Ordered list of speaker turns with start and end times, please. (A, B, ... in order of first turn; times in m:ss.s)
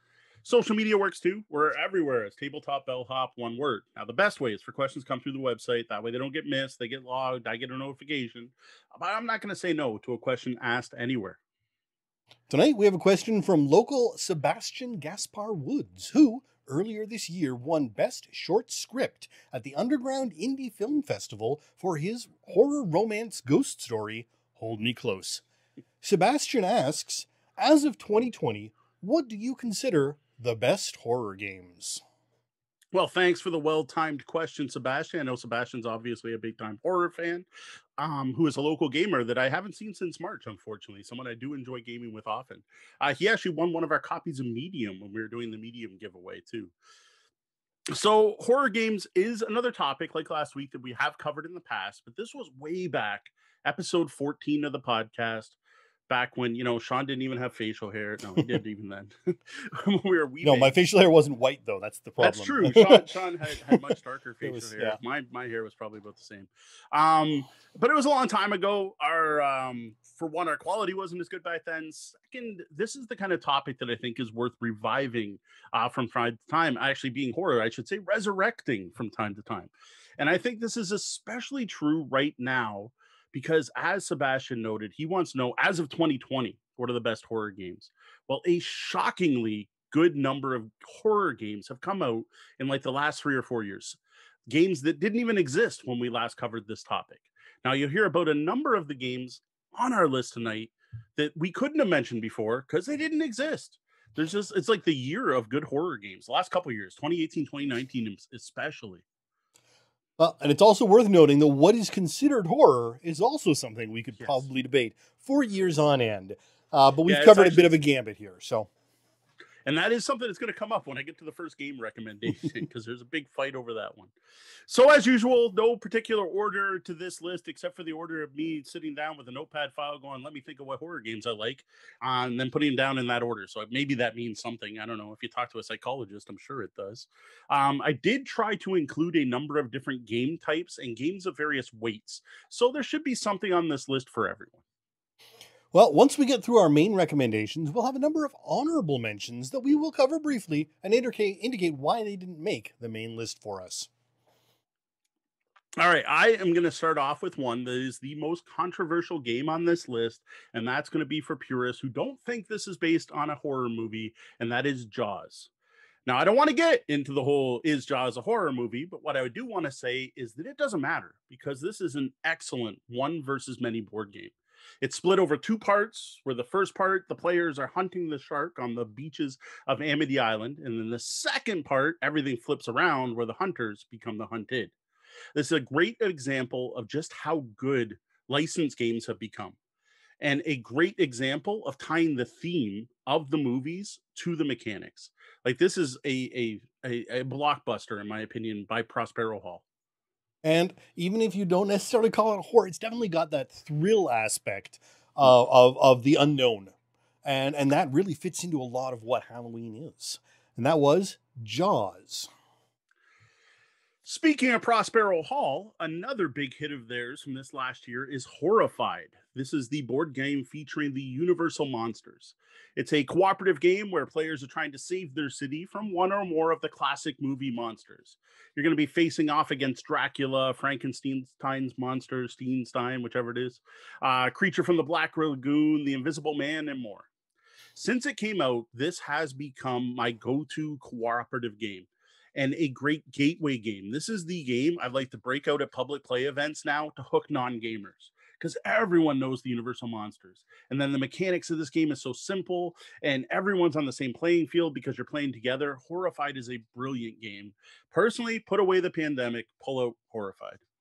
0:00.4-0:11.4 A
0:12.5-0:25.4 B
0:26.0-0:32.0 B
0:32.9-0:37.5 A
0:38.0-0:46.7 A
0:47.9-0:55.6 A
0:56.1-1:00.7 A
1:00.4-1:03.8 B
1:02.2-1:49.0 A
1:04.4-1:05.0 B
1:50.2-1:58.7 B
1:57.1-1:57.7 A
1:59.7-2:04.1 A
2:04.7-2:24.6 A
2:25.7-2:33.9 B
2:35.8-2:45.5 A
2:46.1-3:04.7 A
3:05.4-3:09.6 A
3:10.2-3:19.6 A
3:20.4-3:26.7 B
3:27.2-3:32.3 B
3:34.0-3:57.1 A
3:57.8-4:20.6 A